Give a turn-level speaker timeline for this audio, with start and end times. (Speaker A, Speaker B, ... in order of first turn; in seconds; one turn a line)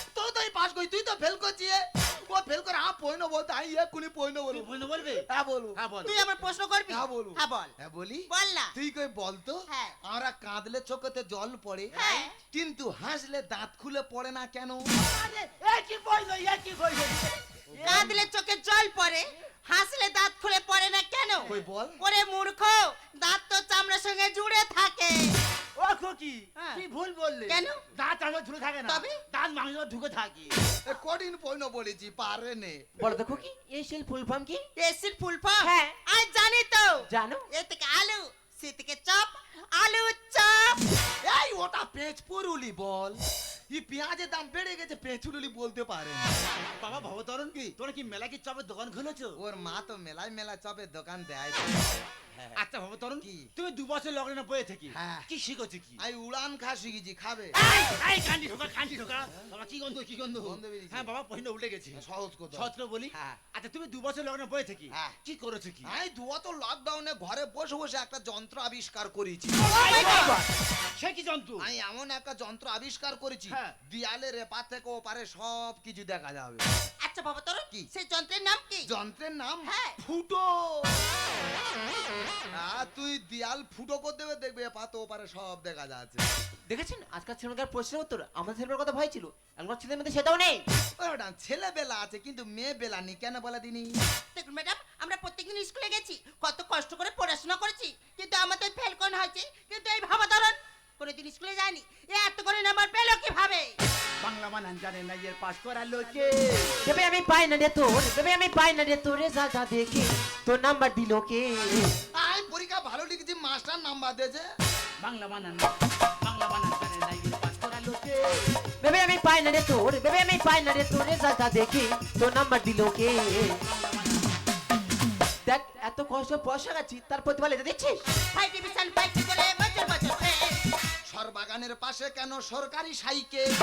Speaker A: 0.1-4.7
Speaker B: 4.5-5.2
Speaker A: 5.3-5.8
Speaker B: 5.8-6.2
Speaker C: 6.0-7.7
Speaker A: 6.9-14.8
Speaker C: 8.3-8.7
Speaker C: 9.7-10.0
Speaker B: 11.9-12.2
Speaker C: 11.9-12.3
Speaker B: 14.9-18.2
Speaker A: 17.8-18.1
Speaker C: 17.8-25.4
Speaker A: 21.5-22.0
Speaker B: 25.8-30.5
Speaker C: 27.5-27.8
Speaker C: 28.9-29.2
Speaker A: 30.9-33.1
Speaker D: 33.0-34.7
Speaker C: 34.8-40.8
Speaker D: 35.6-36.0
Speaker D: 37.1-37.5
Speaker A: 41.2-43.2
Speaker A: 43.7-46.4
Speaker B: 46.8-49.4
Speaker A: 49.4-52.6
Speaker B: 52.6-56.0
Speaker A: 53.2-53.5
Speaker A: 54.9-55.3
Speaker A: 56.0-57.6
Speaker B: 57.5-65.9
Speaker A: 60.4-61.1
Speaker A: 62.0-62.7
Speaker A: 65.8-70.3
Speaker B: 69.5-71.7
Speaker C: 69.7-70.4
Speaker A: 71.6-76.6
Speaker B: 73.5-73.8
Speaker C: 77.0-78.9
Speaker A: 78.9-81.1
Speaker C: 79.7-80.0
Speaker A: 82.6-86.2
Speaker D: 86.7-90.6
Speaker A: 91.0-93.9
Speaker C: 94.3-103.8
Speaker B: 104.2-106.8
Speaker D: 106.8-112.0
Speaker A: 112.1-114.5
Speaker B: 115.0-118.6
Speaker D: 118.8-123.6
Speaker B: 123.6-124.3
Speaker D: 125.5-128.0
Speaker C: 128.3-130.7
Speaker A: 131.1-133.5